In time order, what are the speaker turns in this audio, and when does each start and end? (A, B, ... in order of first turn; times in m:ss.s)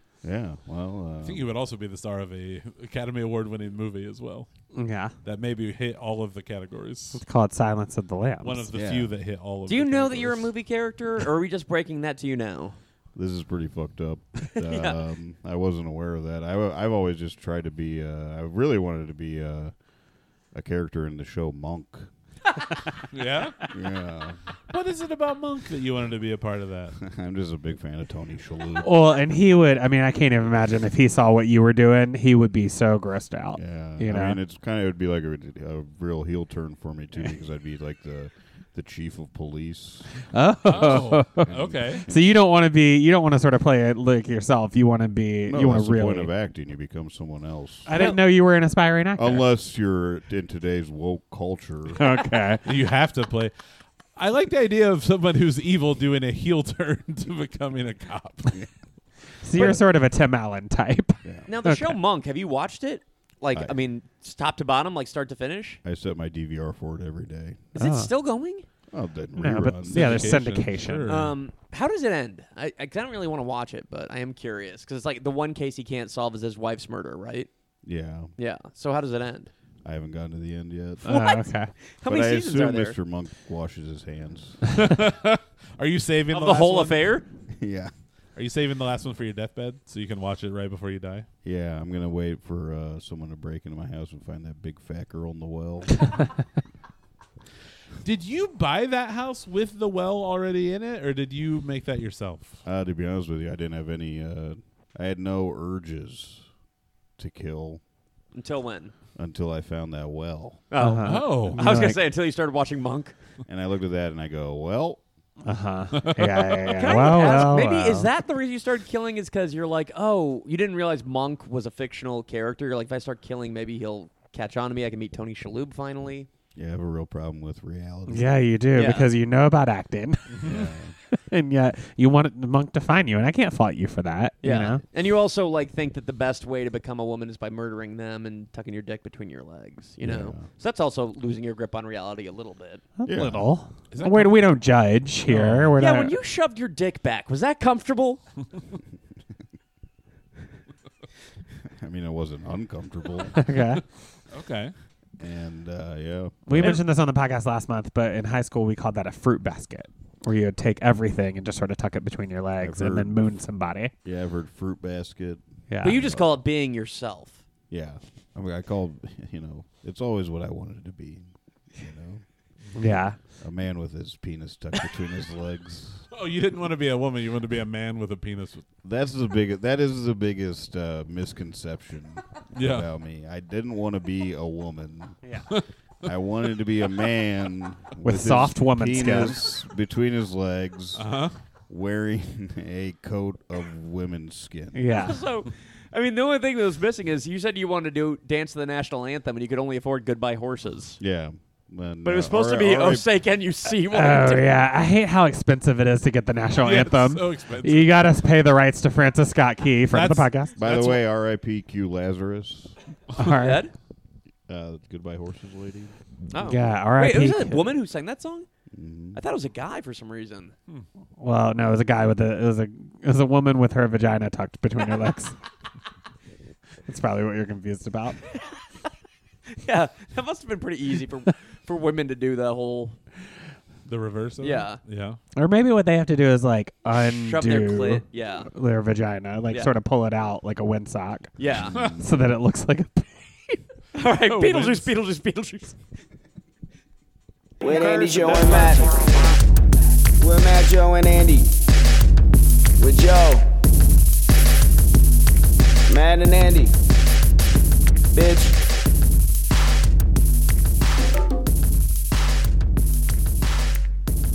0:00.2-0:01.5 A
0:01.2-0:04.5 B
0:04.7-0:05.1 C
0:05.2-0:07.2 B
0:07.1-0:08.7 C
0:08.4-0:10.6 B
0:08.7-0:09.2 A
0:09.7-0:12.8 D
0:13.2-0:19.7 A
0:14.6-0:15.0 D
0:20.5-0:22.1 A
0:23.1-0:23.6 B
0:23.7-0:24.4 A
0:24.7-0:27.0 B
0:27.0-0:28.9 A
0:28.8-0:34.4 C
0:33.6-0:40.2 A
0:40.3-0:41.5 C
0:40.6-0:42.0 B
0:40.8-0:42.3 A
0:42.0-0:46.3 C
0:45.5-0:48.0 A
0:47.9-0:49.4 C
0:49.2-0:52.1 A
0:52.0-0:52.6 C
0:52.6-0:53.5 B
0:54.2-0:58.6 B
0:59.4-1:02.0 C
0:59.6-0:59.8 D
1:01.2-1:01.5 A
1:01.5-1:05.8 D
1:05.8-1:07.7 A
1:07.7-1:08.7 D
1:07.8-1:08.1 C
1:08.9-1:10.4 A
1:09.4-1:11.2 C
1:09.5-1:11.4 B
1:11.1-1:17.5 D
1:17.8-1:18.3 A
1:18.4-1:19.5 D
1:19.8-1:21.1 A
1:21.0-1:21.7 C
1:21.1-1:21.5 D
1:22.0-1:23.0 D
1:22.0-1:24.6 A
1:24.7-1:27.0 B
1:26.3-1:27.3 D
1:27.6-1:27.9 A
1:28.4-1:31.3 B
1:31.4-1:36.1 A
1:38.0-1:42.6 B
1:42.6-1:46.5 A
1:47.2-1:47.8 A
1:48.4-1:48.9 D
1:49.2-1:50.6 A
1:50.7-1:53.2 D
1:50.8-1:52.0 C
1:51.0-1:51.6 B
1:53.5-1:55.0 A
1:55.4-1:58.1 C
1:56.0-1:56.6 B
1:56.7-2:06.3 D
2:06.6-2:08.5 A
2:08.1-2:10.5 C
2:08.7-2:09.1 D
2:10.4-2:11.0 A
2:11.1-2:14.8 C
2:14.4-2:22.8 D
2:20.0-2:20.5 A
2:23.0-2:26.2 C
2:23.1-2:23.5 A
2:23.9-2:24.5 B
2:25.2-2:25.8 B
2:25.8-2:28.2 D
2:31.7-2:33.4 A
2:33.4-2:33.8 C
2:34.3-2:34.7 B
2:35.2-2:36.8 A
2:36.5-2:43.9 C
2:42.6-2:43.3 A
2:44.0-2:46.4 A
2:45.7-2:46.0 C
2:45.8-2:47.4 D
2:47.7-2:52.2 A
2:52.8-2:53.2 C
2:53.4-2:56.1 A
2:56.1-2:58.6 B
2:58.8-3:05.2 A
3:02.5-3:02.9 B
3:06.0-3:11.1 A
3:08.0-3:09.4 C
3:11.0-3:11.4 B
3:11.7-3:14.8 A
3:14.7-3:15.2 C
3:15.0-3:21.0 D
3:21.0-3:23.1 A
3:22.0-3:24.5 D
3:23.8-3:30.6 C
3:26.6-3:28.1 B
3:29.9-3:31.0 B
3:30.6-3:32.8 A
3:33.2-3:33.7 C
3:33.3-3:33.7 D
3:34.5-3:36.0 A
3:36.3-3:38.5 D
3:36.4-3:37.8 C
3:38.7-3:39.2 A
3:39.2-3:40.5 D
3:41.2-3:45.4 C
3:46.9-3:48.2 C
3:49.6-3:53.0 D
3:53.8-3:55.2 B
3:54.4-3:54.8 D
3:55.4-4:01.3 C
3:57.1-3:58.5 D
4:01.4-4:01.8 D
4:01.5-4:02.1 A
4:01.9-4:03.6 C
4:04.0-4:05.8 D
4:04.2-4:04.9 B
4:07.6-4:08.9 E
4:07.6-4:09.1 D
4:10.2-4:11.5 E
4:12.8-4:13.5 E
4:15.9-4:16.7 E
4:18.1-4:18.5 E